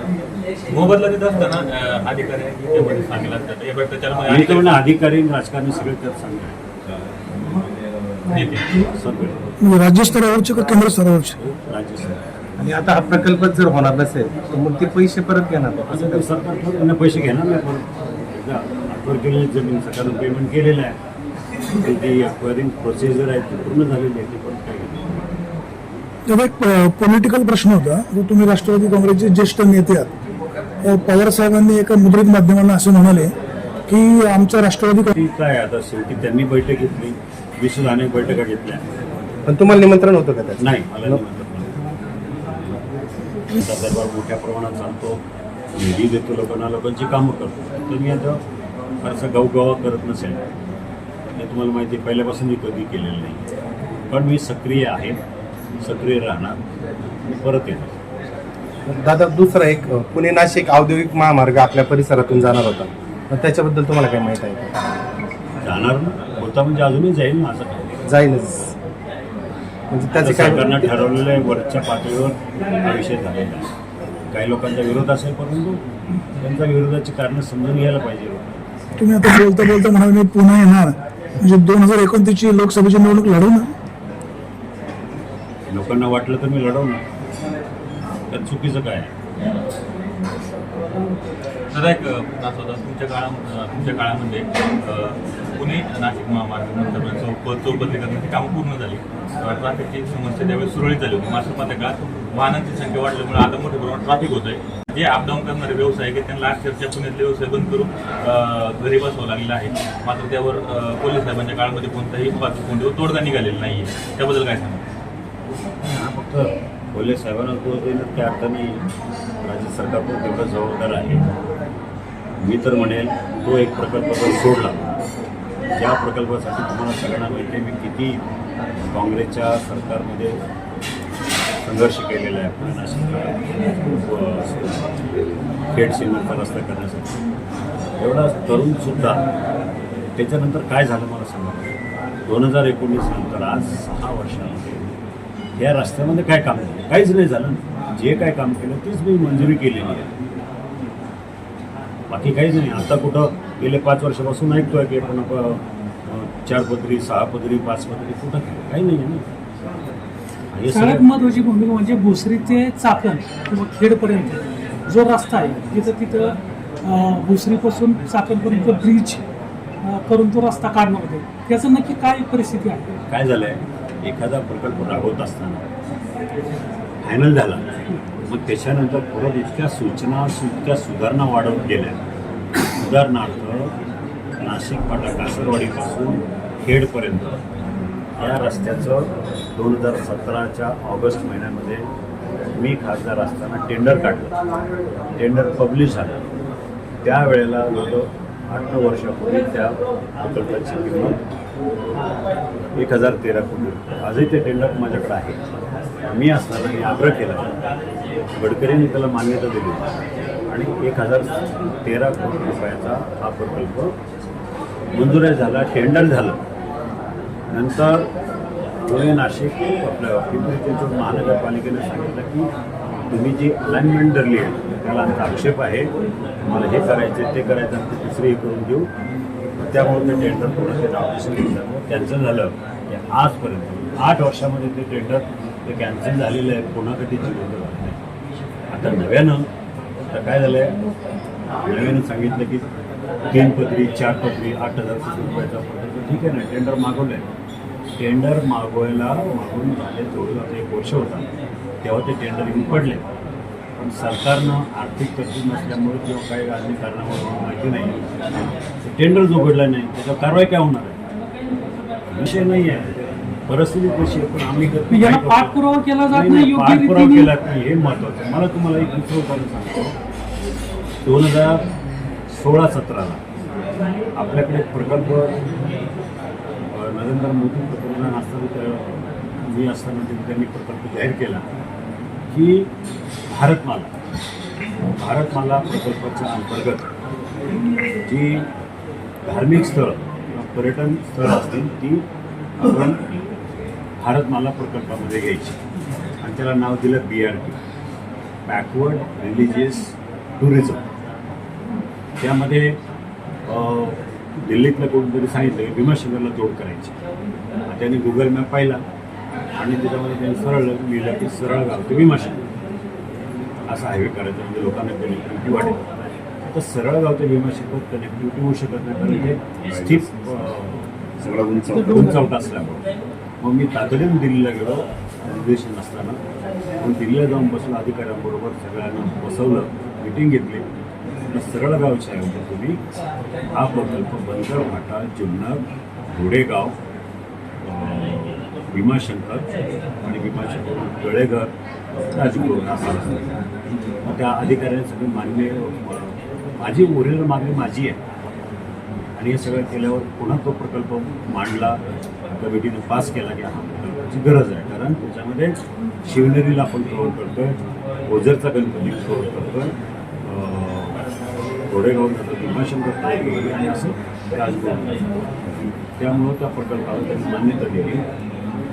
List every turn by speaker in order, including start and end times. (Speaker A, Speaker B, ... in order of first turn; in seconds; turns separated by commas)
Speaker A: 0.7-4.8, Speaker B: 4.3-6.6, Speaker A: 8.3-8.7, Speaker B: 8.9-9.4, Speaker C: 9.6-11.4, Speaker B: 11.4-12.2, Speaker D: 12.6-16.2, Speaker B: 15.9-21.0, Speaker B: 21.8-25.1, Speaker C: 26.3-30.1, Speaker C: 30.8-33.3, Speaker C: 33.9-35.1, Speaker B: 35.1-38.8, Speaker D: 39.5-41.2, Speaker B: 40.6-41.7, Speaker B: 43.5-45.2, Speaker B: 45.7-48.4, Speaker B: 49.0-50.4, Speaker B: 51.4-53.5, Speaker B: 54.1-55.2, Speaker B: 55.8-56.6, Speaker B: 57.2-58.0, Speaker D: 58.8-64.7, Speaker B: 65.6-68.0, Speaker D: 68.1-68.7, Speaker D: 69.9-70.9, Speaker B: 70.2-73.7, Speaker B: 74.3-75.8, Speaker B: 76.4-78.4, Speaker C: 79.0-83.7, Speaker B: 85.7-87.0, Speaker B: 88.3-89.1, Speaker A: 91.7-114.8, Speaker B: 115.8-118.8, Speaker B: 119.4-121.2, Speaker B: 122.4-124.8, Speaker B: 125.7-128.2, Speaker B: 128.9-130.4, Speaker B: 131.6-134.9, Speaker B: 135.7-137.1, Speaker B: 138.0-139.2, Speaker B: 140.2-144.9, Speaker B: 145.6-150.1, Speaker B: 152.1-159.2, Speaker B: 160.5-161.1, Speaker E: 160.7-169.2, Speaker E: 169.8-172.8, Speaker B: 173.1-175.6, Speaker B: 177.0-177.6, Speaker B: 178.2-182.0, Speaker B: 182.8-183.7, Speaker B: 184.4-187.4, Speaker B: 188.2-191.9, Speaker B: 192.6-194.3, Speaker B: 195.2-196.2, Speaker B: 197.0-201.2, Speaker B: 202.7-205.4, Speaker B: 206.1-207.4, Speaker B: 208.3-209.8, Speaker B: 210.5-213.9, Speaker B: 214.9-216.4, Speaker B: 217.5-218.1, Speaker B: 218.8-222.5, Speaker B: 223.1-225.9, Speaker B: 226.4-228.9, Speaker B: 229.6-238.0, Speaker B: 238.7-239.5, Speaker B: 240.1-240.7, Speaker B: 241.6-242.6, Speaker B: 243.3-247.2, Speaker B: 248.0-251.3, Speaker B: 251.8-253.0, Speaker B: 253.8-258.1, Speaker B: 258.8-261.0, Speaker B: 262.1-269.9, Speaker E: 264.9-267.3, Speaker B: 271.0-271.6, Speaker B: 272.3-273.2, Speaker B: 274.1-275.4, Speaker B: 276.7-281.4, Speaker B: 282.3-282.7, Speaker B: 283.3-283.9, Speaker B: 285.0-286.9, Speaker B: 288.1-288.5, Speaker B: 289.2-292.1, Speaker B: 292.6-293.0, Speaker B: 294.0-295.6, Speaker B: 296.2-297.6, Speaker B: 298.5-300.8, Speaker B: 302.2-302.8, Speaker B: 303.4-306.9, Speaker B: 307.7-308.8, Speaker B: 309.6-312.4, Speaker B: 313.7-315.8, Speaker B: 316.4-322.8, Speaker B: 323.4-326.2, Speaker B: 326.8-330.7, Speaker B: 331.3-332.8, Speaker B: 333.5-336.8, Speaker B: 337.6-339.5, Speaker B: 340.0-341.5, Speaker B: 342.1-343.2, Speaker B: 344.0-348.0, Speaker B: 349.2-351.8, Speaker B: 352.3-361.0, Speaker B: 361.7-365.2, Speaker B: 365.9-368.0